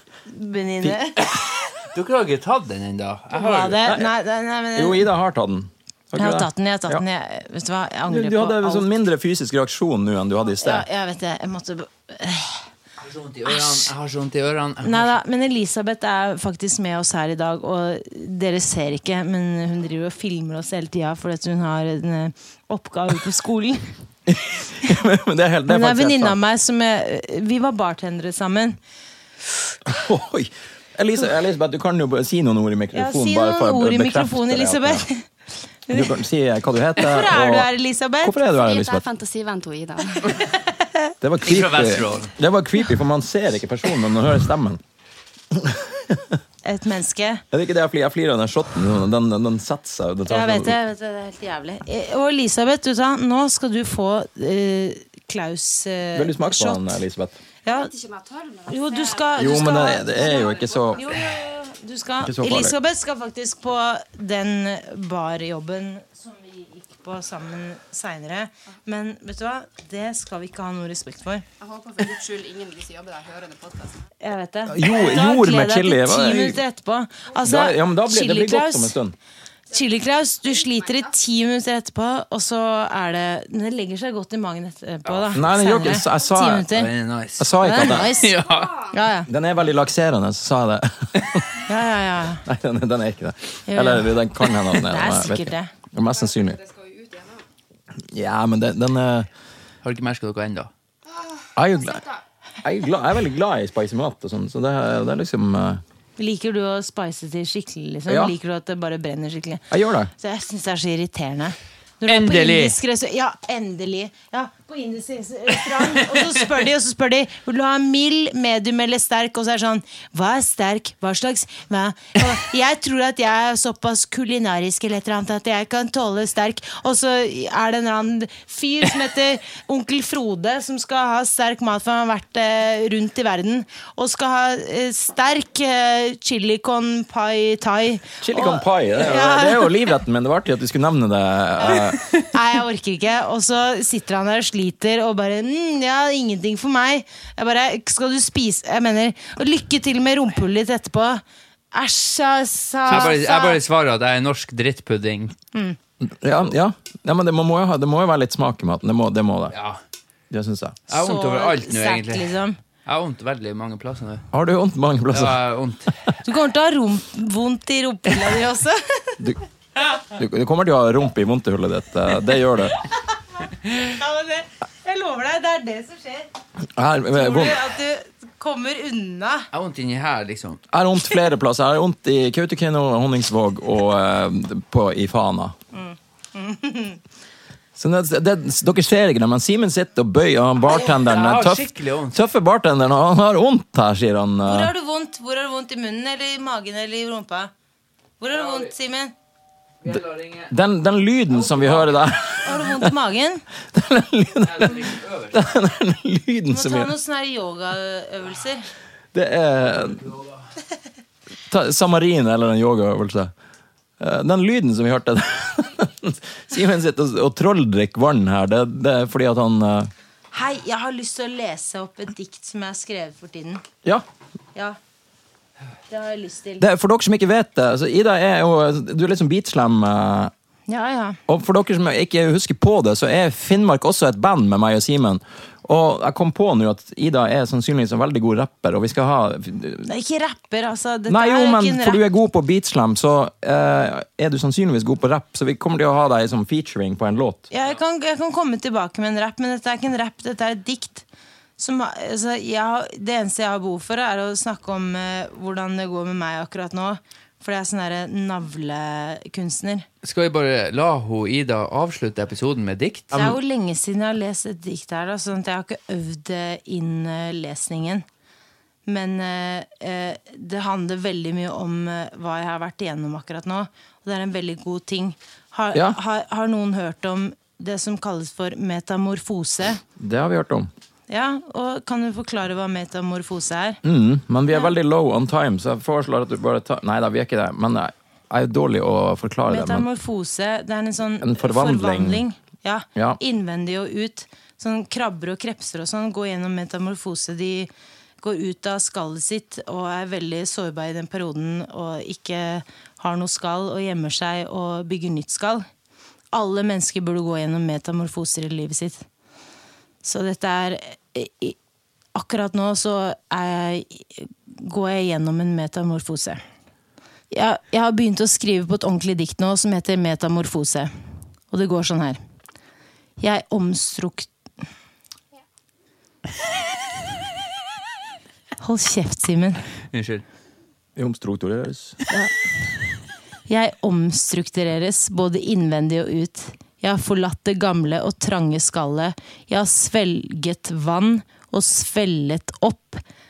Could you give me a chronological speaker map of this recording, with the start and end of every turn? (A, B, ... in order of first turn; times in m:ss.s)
0:00.2-0:01.4 A
0:01.8-0:03.8 B
0:03.3-0:05.1 A
0:03.8-0:04.1 C
0:04.8-0:07.0 C
0:06.2-0:08.9 A
0:08.1-0:10.8 C
0:10.6-0:12.7 A
0:13.0-0:15.2 B
0:13.5-0:13.8 A
0:14.8-0:23.9 A
0:24.3-0:26.4 C
0:25.7-0:28.8 A
0:29.8-0:35.0 C
0:32.9-0:35.3 A
0:35.8-0:36.2 A
0:35.9-0:37.7 C
0:37.0-0:38.4 A
0:38.2-0:39.0 C
0:38.5-0:40.5 D
0:41.2-0:44.8 C
0:41.4-0:42.3 B
0:45.5-0:46.4 C
0:46.6-0:47.4 A
0:47.5-0:50.7 C
0:50.3-0:57.0 A
0:56.1-0:57.4 C
0:57.6-0:57.9 A
0:57.6-1:01.3 D
0:58.7-1:11.4 A
0:59.4-1:01.0 C
1:02.2-1:02.7 C
1:11.6-1:14.0 D
1:14.2-1:18.9 A
1:14.7-1:16.6 C
1:17.4-1:19.1 C
1:19.7-1:26.9 A
1:19.7-1:21.1 D
1:25.3-1:26.8 C
1:26.7-1:28.9 B
1:27.4-1:28.2 C
1:27.6-1:28.4 A
1:28.3-1:29.0 D
1:28.9-1:29.3 A
1:29.3-1:31.7 C
1:31.6-1:32.4 A
1:32.4-1:36.6 C
1:33.7-1:34.1 A
1:34.7-1:35.7 A
1:36.1-1:37.4 D
1:38.1-1:39.3 C
1:39.8-1:40.7 B
1:41.1-1:42.2 D
1:41.6-1:42.0 C
1:42.6-1:45.8 C
1:46.2-2:19.9 A
1:48.1-1:48.3 C
1:49.7-1:50.1 C
1:52.0-1:52.8 B
2:18.2-2:22.0 C
2:21.6-2:33.6 A
2:32.9-2:35.3 B
2:36.0-2:39.5 C
2:39.5-2:39.8 B
2:40.3-2:40.8 C
2:40.9-2:42.3 B
2:40.9-2:42.6 A
2:42.8-2:44.2 B
2:44.3-2:45.4 C
2:45.1-2:46.0 B
2:46.2-2:49.2 A
2:50.0-2:52.8 C
2:53.7-2:56.3 A
2:56.8-2:57.6 C
2:57.1-2:59.5 A
2:59.5-3:00.6 B
3:00.7-3:05.5 C
3:05.7-3:07.0 A
3:07.8-3:14.7 C
3:10.7-3:12.2 B
3:14.4-3:17.5 A
3:18.2-3:19.1 A
3:19.8-3:20.5 B
3:19.9-3:22.9 C
3:21.4-3:21.9 B
3:22.4-3:23.4 A
3:23.7-3:26.9 C
3:24.4-3:25.4 B
3:26.5-3:28.7 A
3:29.1-3:30.1 C
3:31.5-3:33.3 C
3:34.0-3:39.9 C
3:40.3-3:43.6 A
3:45.9-3:46.6 A
3:46.6-3:50.3 C
3:50.7-3:51.2 A
3:51.3-3:59.8 C
3:59.8-4:02.0 A
4:01.1-4:07.4 C
4:07.5-4:11.0 A
4:11.6-4:19.9 A
4:20.0-4:23.4 B
4:23.1-4:28.0 A
4:28.8-4:39.8 A
4:40.0-4:40.7 C
4:41.1-4:43.8 A
4:43.8-4:49.8 C
4:49.5-4:57.7 A
4:51.2-4:52.2 C
4:58.2-5:05.6 A
5:06.3-5:09.0 A
5:10.0-5:11.6 A
5:12.1-5:16.4 A
5:17.3-5:20.9 A
5:21.5-5:22.2 A
5:23.2-5:24.3 A
5:28.6-5:29.6 A
5:29.9-5:30.2 B
5:31.0-5:32.0 C
5:33.5-5:43.0 A